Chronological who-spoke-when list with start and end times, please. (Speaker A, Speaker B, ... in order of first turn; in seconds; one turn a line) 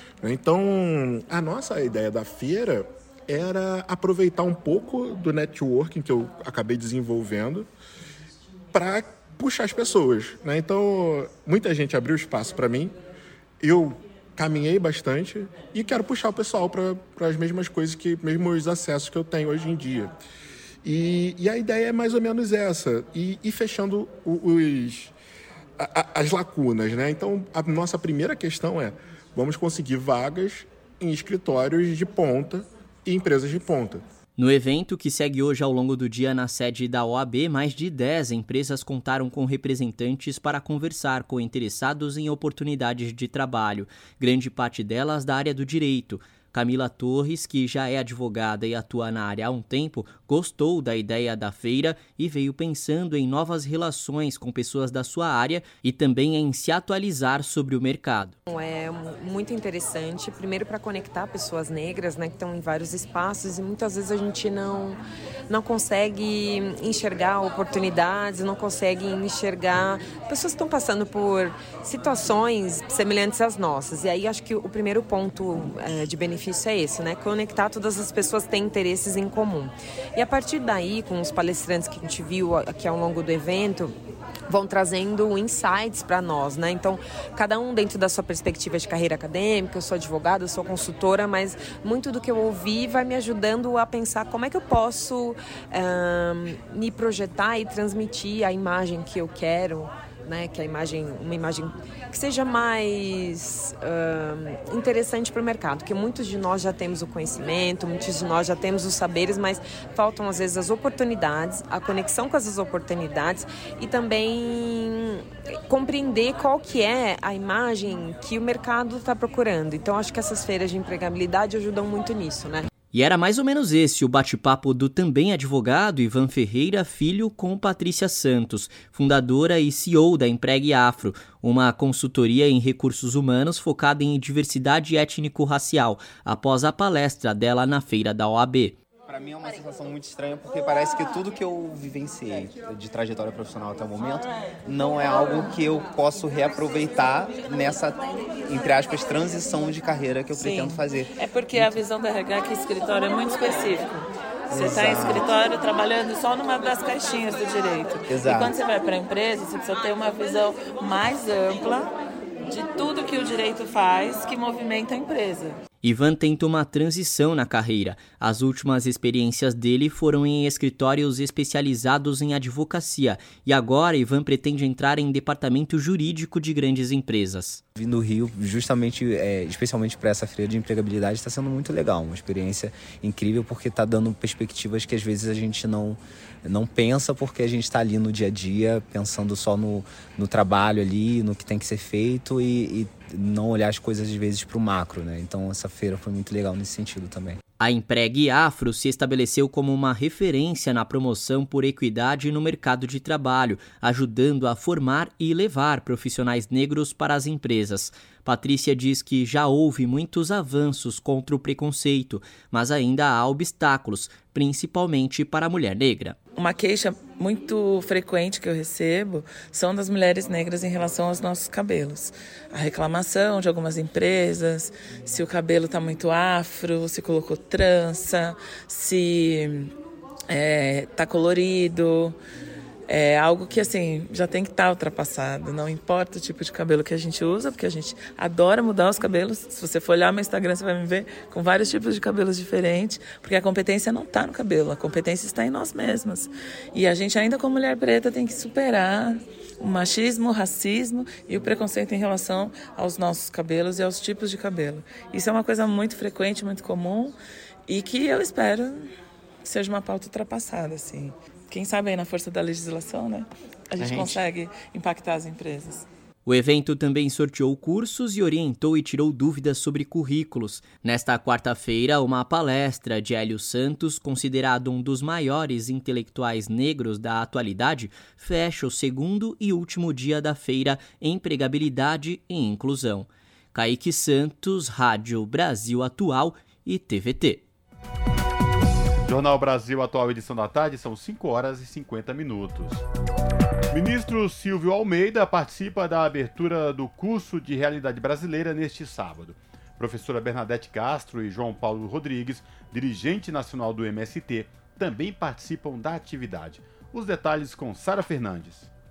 Speaker A: 0.2-7.7
Speaker A: 8.7-12.9
Speaker A: 13.6-20.1
Speaker A: 20.8-25.1
Speaker A: 25.8-34.0
Speaker B: 34.4-58.4
Speaker C: 58.5-83.9
Speaker C: 84.5-122.6
Speaker B: 122.9-138.8
Speaker D: 139.1-151.7
Speaker E: 150.3-161.9
Speaker D: 154.5-155.3
Speaker D: 158.1-158.6
Speaker E: 162.5-165.6
Speaker B: 165.8-177.6
Speaker D: 177.8-197.4
Speaker B: 197.6-216.2
Speaker E: 216.3-229.7
Speaker E: 230.3-232.2
Speaker E: 232.9-257.1
Speaker E: 257.7-258.9
Speaker E: 259.4-265.9
Speaker D: 263.8-264.2
Speaker B: 266.2-287.4
Speaker F: 289.1-292.8
Speaker F: 293.7-308.7